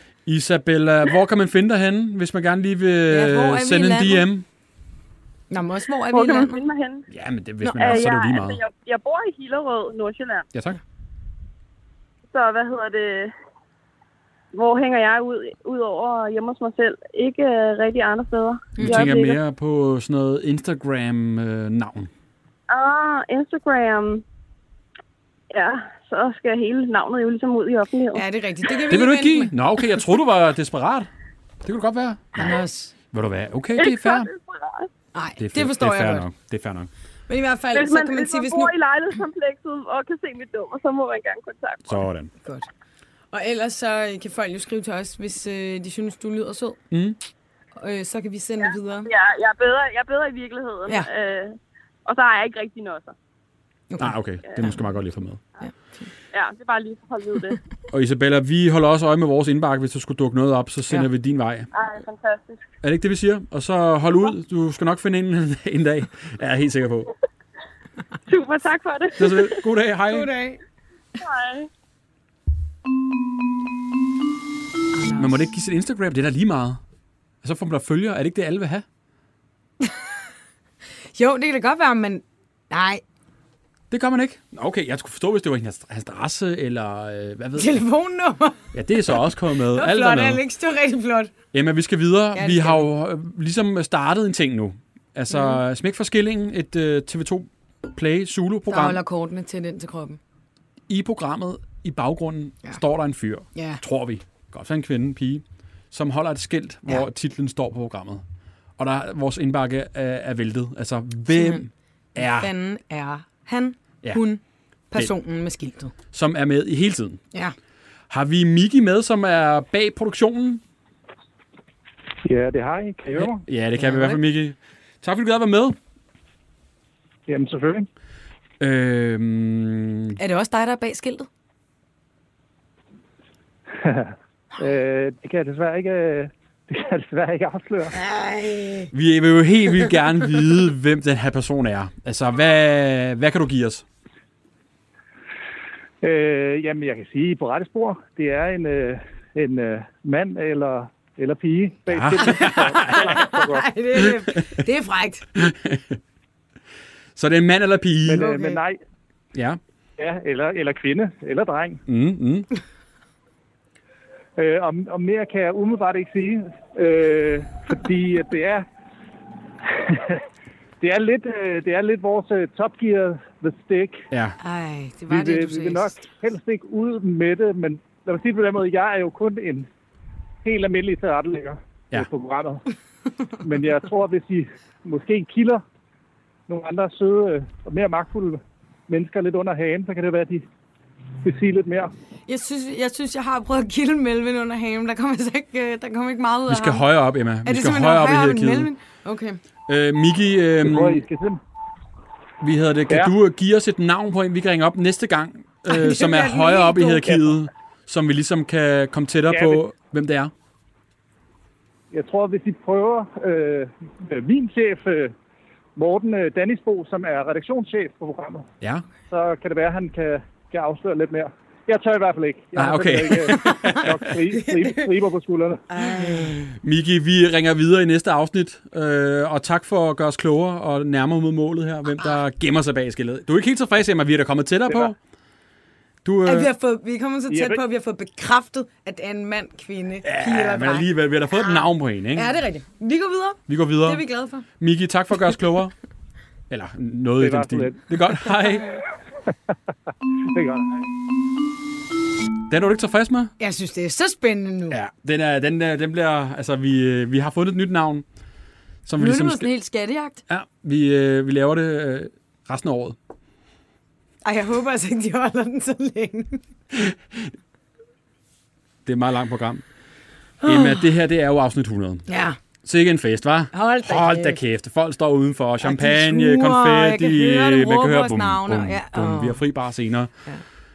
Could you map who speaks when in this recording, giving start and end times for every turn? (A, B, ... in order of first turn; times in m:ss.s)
0:00.2-0:04.4 A
0:03.1-0:04.2 B
0:05.5-0:06.6 B
0:06.1-0:07.1 C
0:07.1-0:08.6 A
0:07.6-0:08.0 B
0:07.7-0:10.4 C
0:10.5-0:10.8 A
0:12.3-0:13.3 C
0:14.5-0:19.4 C
0:18.8-0:19.1 B
0:18.8-0:22.1 A
0:22.7-0:24.2 C
0:25.5-0:28.2 C
0:28.1-0:29.5 B
0:28.9-0:31.1 A
0:31.6-0:34.3 A
0:32.4-0:32.9 B
0:33.8-0:34.9 C
0:35.1-0:36.3 B
0:35.4-0:36.9 A
0:37.3-0:38.7 B
0:37.7-0:42.0 C
0:41.8-0:42.3 A
0:43.3-0:46.8 B
0:46.9-0:47.2 A
0:47.8-0:49.1 B
0:48.6-0:53.1 C
0:53.9-0:54.8 B
0:54.0-0:55.4 A
0:55.6-0:56.1 B
0:56.3-0:57.6 C
0:57.9-1:01.7 A
1:01.7-1:02.7 C
1:02.8-1:07.1 A
1:08.3-1:09.6 C
1:09.2-1:10.3 A
1:10.1-1:10.6 B
1:11.2-1:11.7 C
1:14.9-1:15.4 B
1:15.2-1:16.8 A
1:17.4-1:18.8 A
1:19.8-1:20.2 B
1:21.1-1:23.0 B
1:23.9-1:27.8 A
1:27.6-1:29.2 B
1:28.7-1:30.4 A
1:29.7-1:31.3 B
1:31.5-1:39.0 A
1:32.3-1:32.8 B
1:35.3-1:35.6 B
1:38.7-1:40.2 B
1:40.9-1:48.2 A
1:43.5-1:43.8 B
1:48.8-1:52.5 A
1:51.3-1:51.6 B
1:52.2-1:55.9 B
1:56.1-1:57.2 A
1:58.1-2:00.6 A
2:02.2-2:03.4 D
2:03.2-2:05.8 A
2:03.8-2:04.2 B
2:07.3-2:07.9 D
2:08.6-2:10.2 A
2:10.2-2:11.3 B
2:13.8-2:17.9 D
2:17.9-2:18.9 B
2:18.9-2:23.8 A
2:26.0-2:33.6 D
2:31.9-2:33.3 A
2:32.2-2:35.3 B
2:33.9-2:34.6 A
2:35.3-2:36.0 A
2:37.2-2:38.2 A
2:38.0-2:38.8 D
2:38.2-2:38.6 B
2:39.3-2:39.6 A
2:40.0-2:41.8 D
2:41.9-2:42.5 A
2:44.4-2:48.6 D
2:49.7-2:50.2 D
2:50.8-2:54.0 D
2:54.1-2:54.4 A
2:54.4-2:55.9 B
2:55.1-2:59.7 D
3:00.4-3:02.6 D
3:03.4-3:05.6 D
3:06.5-3:10.4 D
3:11.2-3:11.9 D
3:12.3-3:16.8 B
3:16.5-3:18.7 A
3:17.4-3:19.4 B
3:19.7-3:21.0 A
3:20.6-3:21.4 D
3:22.4-3:30.3 A
3:25.7-3:27.2 B
3:29.3-3:29.6 D
3:31.9-3:35.1 D
3:35.8-3:38.5 D
3:39.1-3:45.9 D
3:42.6-3:44.0 A
3:43.3-3:43.8 B
3:44.4-3:44.9 B
3:45.7-3:46.3 B
3:46.1-3:55.0 A
3:56.0-3:56.5 A
3:56.2-4:04.4 B
3:57.3-3:57.6 D
4:00.0-4:02.4 A
4:03.5-4:04.0 A
4:04.6-4:05.7 A
4:06.5-4:08.8 A
4:07.2-4:08.0 D
4:10.3-4:10.8 D
4:12.5-4:13.3 A
4:13.4-4:14.8 B
4:14.7-4:18.0 A
4:18.8-4:19.5 A
4:19.0-4:20.2 B
4:20.3-4:23.0 A
4:24.2-4:26.4 B
4:26.7-4:27.3 A
4:28.8-4:29.6 A
4:30.4-4:30.9 B
4:30.4-4:32.0 A
4:32.1-4:32.4 B
4:32.6-4:40.1 A
4:33.5-4:34.4 B
4:35.6-4:39.4 B